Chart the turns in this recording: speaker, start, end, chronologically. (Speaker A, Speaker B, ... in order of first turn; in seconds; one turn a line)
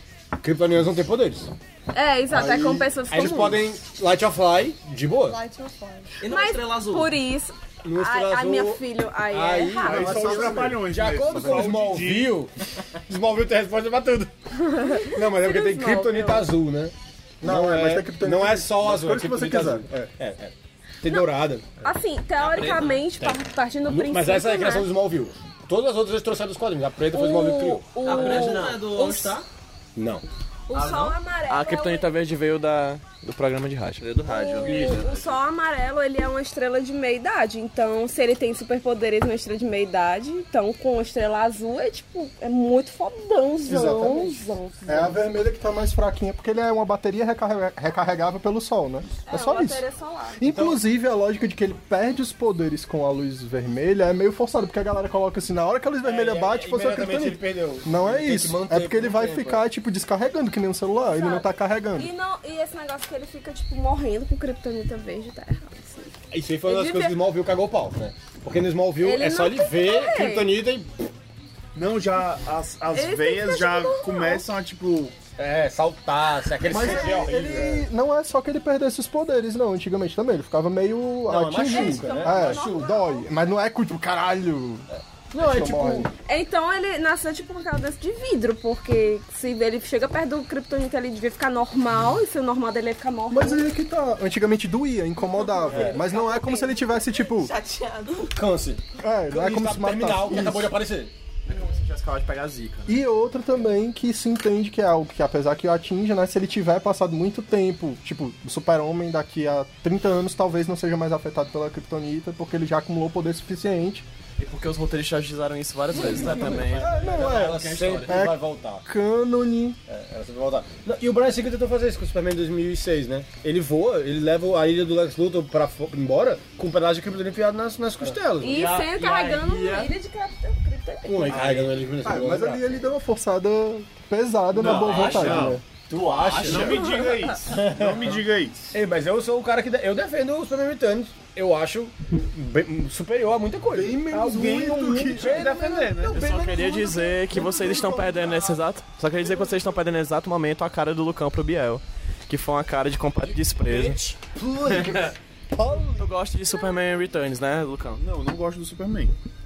Speaker A: 0.4-1.5
Speaker B: 1.9-3.6
Speaker C: 2.3-3.4
Speaker A: 3.1-5.4
Speaker D: 5.2-6.1
Speaker E: 6.2-7.2
Speaker B: 6.2-10.2
Speaker A: 7.8-12.5
Speaker F: 9.8-12.4
Speaker C: 9.9-11.7
Speaker A: 13.1-14.3
Speaker B: 14.6-16.5
Speaker A: 14.9-21.7
Speaker C: 17.4-19.9
Speaker B: 21.8-24.9
Speaker E: 22.4-23.3
Speaker A: 23.9-28.8
Speaker B: 27.1-29.4
Speaker E: 28.1-29.4
Speaker A: 30.0-30.2
Speaker B: 30.7-32.1
Speaker G: 31.5-34.0
Speaker E: 34.0-35.4
Speaker B: 34.3-45.1
Speaker A: 34.6-35.0
Speaker C: 43.6-49.8
Speaker B: 49.3-50.4
Speaker C: 50.4-62.1
Speaker A: 50.5-50.8
Speaker A: 56.0-59.6
Speaker B: 61.1-66.1
Speaker A: 66.3-70.9
Speaker B: 66.7-67.2
Speaker B: 69.0-70.5
Speaker F: 71.8-75.2
Speaker B: 72.9-74.5
Speaker A: 75.4-77.9
Speaker C: 76.7-86.1
Speaker A: 81.3-82.7
Speaker B: 81.7-83.3
Speaker A: 85.3-86.1
Speaker B: 86.3-93.7
Speaker C: 93.3-97.5
Speaker D: 95.4-98.3
Speaker A: 95.7-96.0
Speaker A: 98.3-101.1
Speaker C: 99.0-100.8
Speaker G: 101.5-103.0
Speaker C: 102.9-114.1
Speaker G: 114.4-118.2
Speaker A: 116.4-118.8
Speaker C: 116.8-119.8
Speaker A: 119.9-128.6
Speaker B: 128.4-131.5
Speaker G: 128.4-129.9
Speaker A: 131.1-132.8
Speaker G: 131.3-131.7
Speaker C: 132.0-135.6
Speaker A: 134.6-138.2
Speaker F: 134.6-135.5
Speaker G: 134.7-135.3
Speaker G: 135.9-136.8
Speaker F: 136.5-138.7
Speaker A: 138.7-147.0
Speaker C: 143.7-148.4
Speaker F: 144.0-145.3
Speaker G: 146.0-154.0
Speaker A: 153.6-156.0
Speaker G: 155.9-158.0
Speaker F: 158.0-159.1